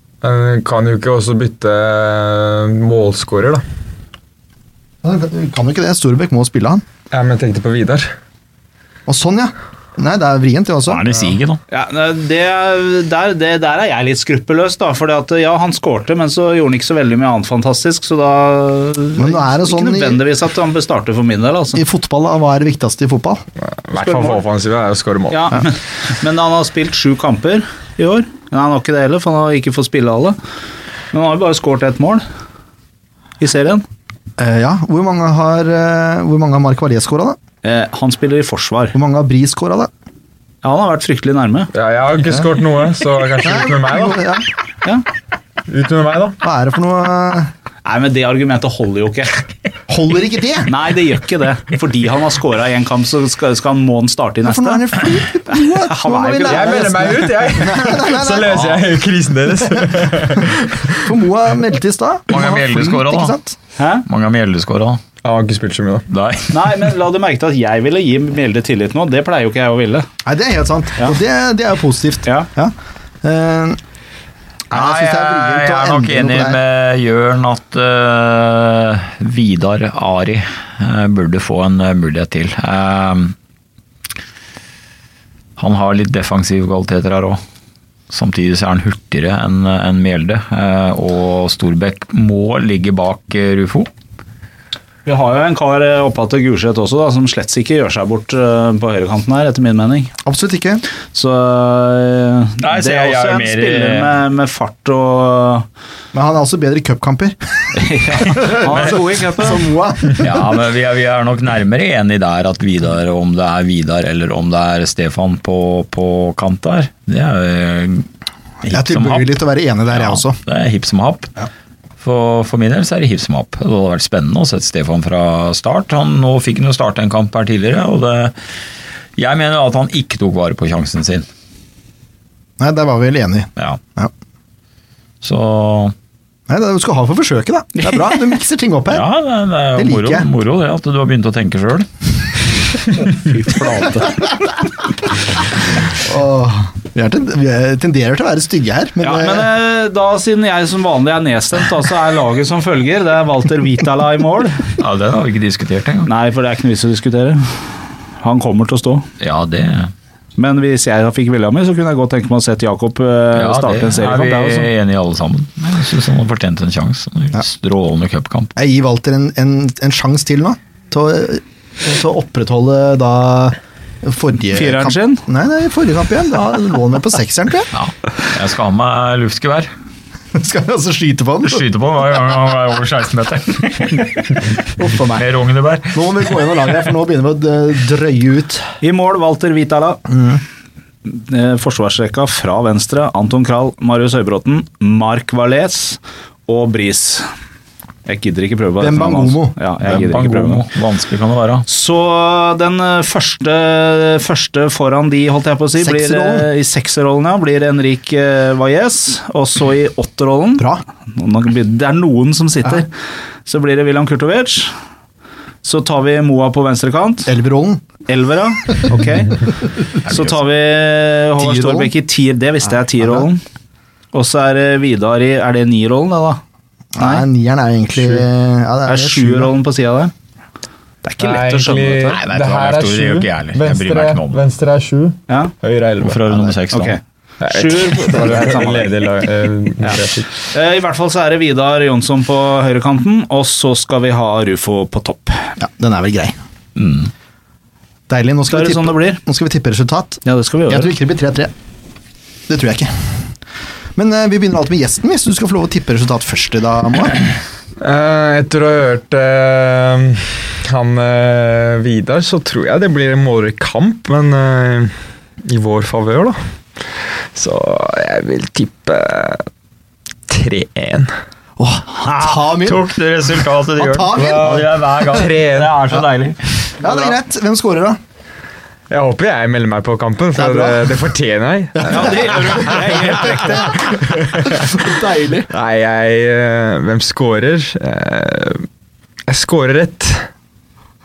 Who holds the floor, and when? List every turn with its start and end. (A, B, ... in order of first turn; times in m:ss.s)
0:00.2-0:03.6 A
0:05.0-0:06.8 B
0:07.1-0:08.1 A
0:09.1-0:11.0 B
0:10.8-0:11.6 C
0:11.7-0:21.8 D
0:19.2-0:20.2 B
0:21.7-0:23.4 B
0:23.8-0:25.6 A
0:24.0-0:24.4 D
0:25.3-0:30.4 D
0:31.1-0:32.2 D
0:33.4-0:33.8 D
0:34.4-0:37.4 B
0:37.6-0:38.9 D
0:38.9-0:39.9 B
0:40.6-0:41.7 D
0:41.7-0:44.3 A
0:43.4-0:44.5 B
0:45.7-0:46.4 A
0:46.4-0:47.5 B
0:47.8-0:49.5 D
0:49.9-0:50.7 B
0:50.7-0:55.0 D
0:54.4-0:58.9 B
0:55.5-0:56.9 D
0:56.4-1:01.0 A
0:59.8-1:00.1 B
1:01.0-1:03.6 B
1:02.3-1:03.3 C
1:03.8-1:04.0 D
1:04.0-1:05.0 C
1:05.2-1:06.1 A
1:06.1-1:06.9 C
1:06.5-1:10.1 D
1:10.2-1:13.8 B
1:14.7-1:16.6 B
1:14.7-1:23.3 C
1:25.6-1:27.4 C
1:28.1-1:33.9 C
1:35.0-1:40.1 D
1:40.2-1:40.8 B
1:41.1-1:45.6 D
1:42.6-1:44.2 C
1:46.1-1:50.5 B
1:47.8-1:49.7 D
1:50.2-1:58.1 C
1:58.6-1:59.3 C
1:58.6-2:00.4 B
1:59.9-2:01.4 C
2:02.0-2:08.4 C
2:09.2-2:11.3 C
2:12.6-2:14.1 B
2:15.2-2:15.9 C
2:16.5-2:19.1 B
2:18.9-2:21.9 C
2:19.7-2:20.3 B
2:23.0-2:24.3 D
2:25.9-2:29.5 B
2:29.0-2:34.7 D
2:34.8-2:36.1 C
2:36.1-2:37.7 D
2:38.2-2:39.1 D
2:39.2-2:39.9 C
2:40.4-2:44.7 D
2:43.3-2:48.5 C
2:48.6-2:57.7 B
2:54.5-2:55.2 D
2:57.7-2:59.7 C
3:00.3-3:01.6 B
3:01.4-3:06.1 C
3:04.8-3:05.2 B
3:05.9-3:08.8 B
3:08.8-3:10.0 D
3:10.1-3:10.4 B
3:11.0-3:17.3 D
3:18.0-3:20.6 D
3:18.8-3:19.6 B
3:19.8-3:21.7 C
3:21.7-3:32.9 D
3:25.8-3:26.5 B
3:30.6-3:30.8 B
3:33.4-3:34.7 D
3:35.6-3:37.3 D
3:37.2-3:37.8 B
3:38.1-3:39.6 D
3:40.1-3:43.4 D
3:41.4-3:41.9 B
3:44.1-3:46.4 D
3:46.9-3:49.5 B
3:47.0-3:47.2 D
3:48.8-3:50.1 D
3:51.0-3:52.2 D
3:51.2-3:56.2 A
3:52.1-3:54.4 C
3:56.0-3:57.0 C
3:56.7-3:59.1 D
3:57.4-4:00.3 A
4:00.5-4:05.5 D
4:05.6-4:06.4 B
4:06.8-4:07.1 C
4:08.1-4:11.5 B
4:08.5-4:09.2 D
4:10.2-4:10.9 D
4:12.5-4:13.2 B
4:14.0-4:17.2 B
4:17.8-4:26.4 A
4:27.3-4:29.5 A
4:30.3-4:31.1 A
4:31.6-4:32.9 B
4:32.0-4:36.4 C
4:33.7-4:34.8 B
4:34.2-4:35.8 A
4:36.8-4:38.0 B
4:38.9-4:44.8 A
4:40.3-4:40.9 B
4:41.8-4:43.4 B
4:41.9-4:43.9 D
4:44.4-4:45.5 B
4:45.5-4:48.6 A
4:49.3-4:50.3 A